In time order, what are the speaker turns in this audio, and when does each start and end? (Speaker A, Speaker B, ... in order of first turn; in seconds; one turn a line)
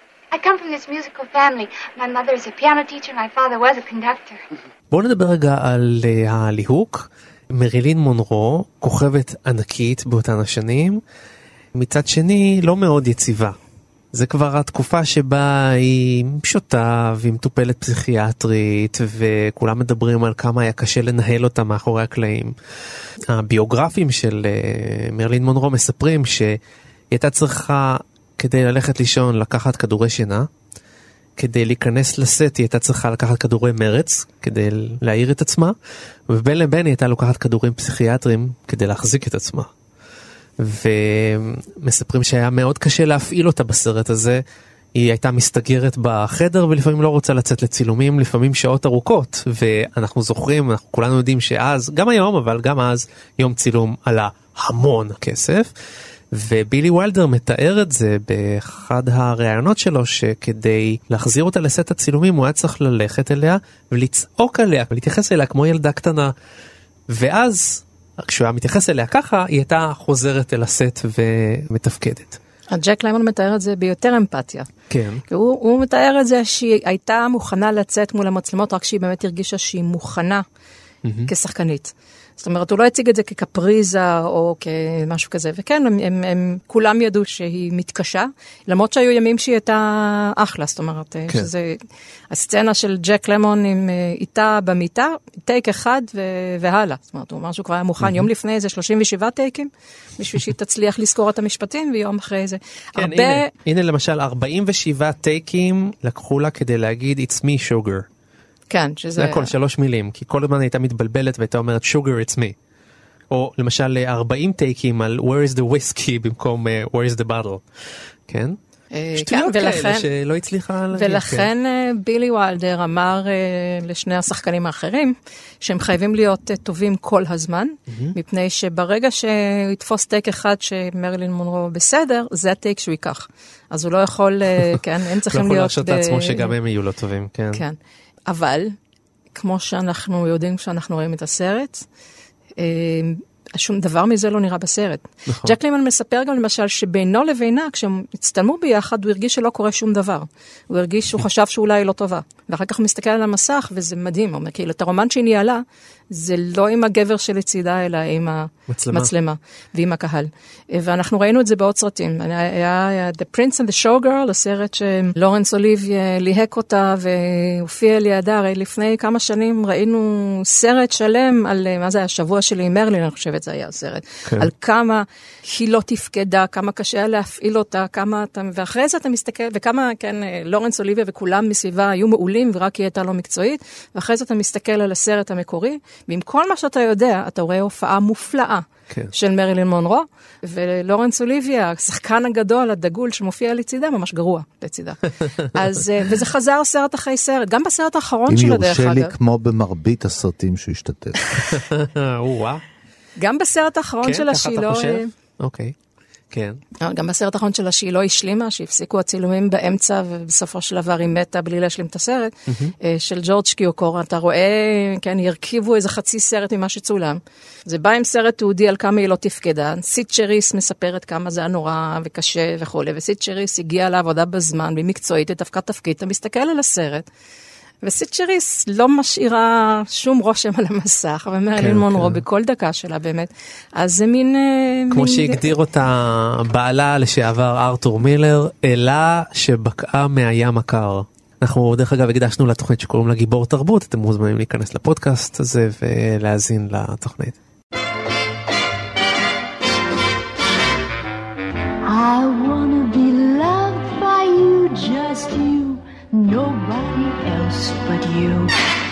Speaker A: 0.3-4.4
Speaker B: 4.9-11.0
Speaker B: 11.7-13.6
Speaker B: 14.1-22.5
Speaker B: 23.3-26.6
Speaker B: 27.1-30.5
Speaker B: 31.4-35.7
Speaker B: 36.3-39.7
Speaker B: 40.6-44.4
Speaker B: 45.0-55.7
Speaker B: 56.3-66.3
Speaker B: 67.1-72.4
Speaker C: 72.7-74.7
Speaker B: 74.9-75.2
Speaker C: 75.3-80.4
Speaker B: 81.0-81.3
Speaker C: 81.3-103.5
Speaker B: 98.0-98.3
Speaker B: 103.0-108.0
Speaker C: 108.7-109.5
Speaker B: 109.2-112.5
Speaker B: 113.3-117.6
Speaker B: 118.3-118.6
Speaker C: 118.9-120.1
Speaker B: 119.2-121.5
Speaker C: 120.9-136.5
Speaker B: 127.9-128.1
Speaker B: 135.3-137.6
Speaker C: 137.5-138.7
Speaker C: 139.3-141.8
Speaker C: 142.6-199.1
Speaker B: 158.7-159.1
Speaker D: 198.3-201.2
Speaker B: 201.4-202.6
Speaker C: 203.2-205.1
Speaker B: 204.0-205.7
Speaker B: 206.3-206.6
Speaker C: 206.8-227.1
Speaker B: 212.5-212.7
Speaker C: 227.8-235.5
Speaker B: 231.6-232.2
Speaker B: 234.9-247.3
Speaker E: 251.8-258.5